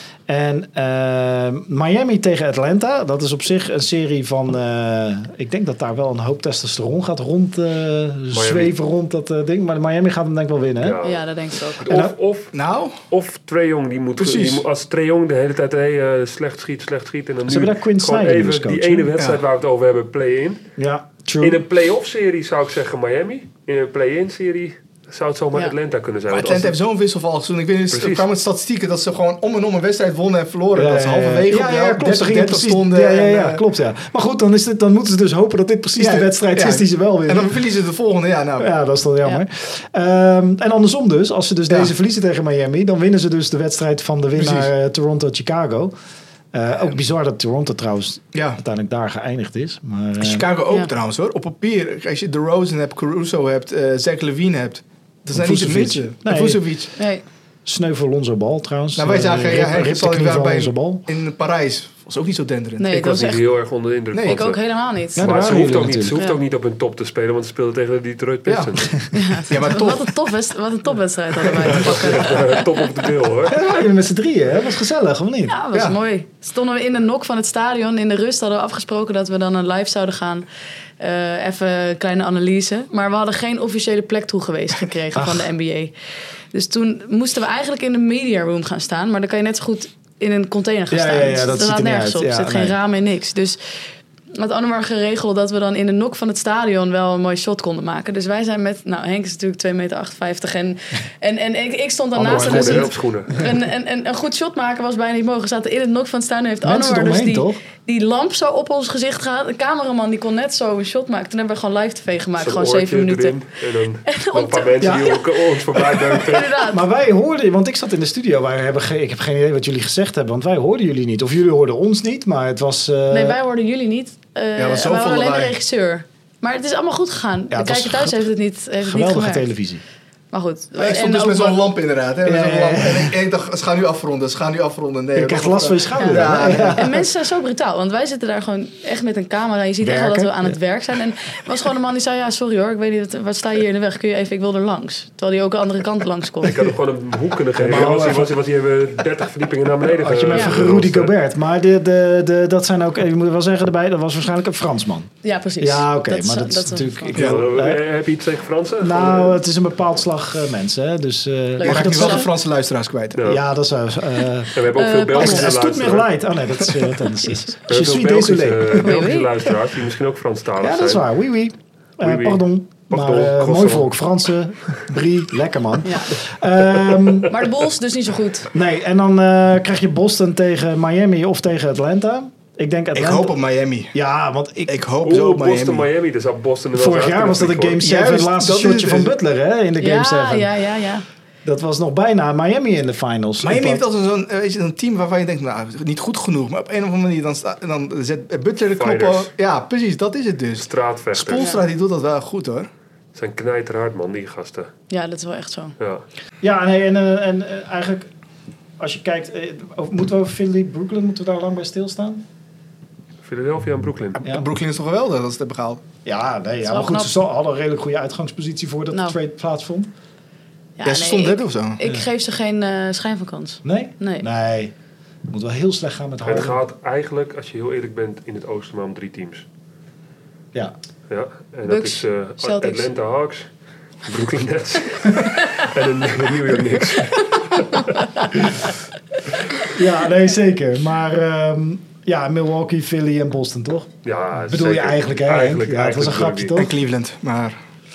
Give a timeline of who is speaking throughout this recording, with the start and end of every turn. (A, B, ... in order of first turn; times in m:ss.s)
0:00.3-0:11.0 A
0:08.3-0:08.7 B
0:10.8-0:11.2 B
0:11.0-0:11.9 C
0:11.8-0:12.5 B
0:11.8-0:12.1 A
0:12.5-0:13.0 D
0:13.1-0:20.6 B
0:14.2-0:14.6 D
0:17.4-0:19.1 A
0:20.8-0:21.6 A
0:21.4-0:26.8 B
0:26.3-0:33.6 D
0:27.9-0:28.3 B
0:30.7-0:37.6 A
0:36.0-0:38.7 D
0:38.6-0:45.9 A
0:44.4-0:44.7 D
0:46.5-0:50.4 A
0:48.3-0:48.6 D
0:50.2-0:56.9 D
0:55.3-0:56.6 A
0:57.0-0:57.2 C
0:57.6-1:01.0 A
0:58.9-1:03.0 D
1:02.8-1:03.4 C
1:02.9-1:04.6 B
1:04.1-1:04.4 D
1:04.2-1:05.5 C
1:05.2-1:06.2 A
1:05.2-1:09.0 B
1:08.5-1:08.9 D
1:09.1-1:12.7 C
1:09.5-1:10.2 D
1:11.6-1:12.1 D
1:11.6-1:13.6 B
1:13.5-1:15.6 A
1:15.5-1:20.4 C
1:15.7-1:16.0 D
1:21.0-1:25.9 C
1:25.1-1:25.5 A
1:26.5-1:33.6 C
1:30.9-1:32.8 A
1:34.3-1:53.4 C
1:42.1-1:43.5 A
1:42.2-1:43.3 B
1:46.6-1:47.6 A
1:52.4-1:56.6 B
1:54.0-1:56.8 C
1:54.8-1:55.2 A
1:56.6-2:03.4 A
2:03.1-2:09.5 C
2:04.6-2:05.5 D
2:07.5-2:08.2 A
2:08.8-2:09.8 A
2:10.3-2:11.7 C
2:10.8-2:16.8 D
2:12.2-2:13.2 A
2:15.1-2:17.0 A
2:16.0-2:26.7 C
2:19.8-2:20.6 A
2:26.4-2:31.1 B
2:27.6-2:28.3 A
2:29.8-2:37.8 A
2:30.3-2:30.6 C
2:35.2-2:37.2 C
2:37.1-2:37.4 D
2:37.1-2:39.4 B
2:38.8-2:42.3 A
2:41.6-2:42.3 C
2:41.6-2:43.2 D
2:43.1-2:43.4 B
2:43.2-2:49.1 A
2:44.5-2:46.1 B
2:44.7-2:45.5 C
2:47.2-2:47.5 C
2:47.7-2:51.0 B
2:48.8-2:49.5 C
2:50.6-2:57.3 A
2:52.0-2:53.9 B
2:55.8-2:56.1 C
2:57.3-2:58.5 C
2:58.5-3:03.3 A
3:02.9-3:03.9 D
3:03.9-3:04.8 A
3:04.7-3:05.9 D
3:05.0-3:07.8 B
3:06.7-3:10.5 A
3:07.8-3:09.1 D
3:09.8-3:11.0 C
3:11.4-3:13.8 A
3:13.4-3:22.7 D
3:18.7-3:19.3 B
3:20.6-3:21.5 B
3:21.4-3:21.6 C
3:23.1-3:24.7 B
3:24.9-3:25.7 C
3:25.8-3:26.0 B
3:26.4-3:28.1 A
3:28.8-3:32.2 A
3:33.2-3:34.2 B
3:34.2-3:35.8 D
3:36.0-3:39.9 A
3:36.6-3:37.1 C
3:40.8-3:44.2 C
3:40.8-3:41.8 D
3:43.6-3:44.7 A
3:45.3-3:46.6 A
3:46.2-3:49.4 B
3:51.1-3:53.5 B
3:51.6-3:52.9 C
3:54.0-3:58.6 B
3:59.6-4:03.9 A
4:04.0-4:06.6 B
4:04.4-4:06.7 A
4:06.5-4:07.6 D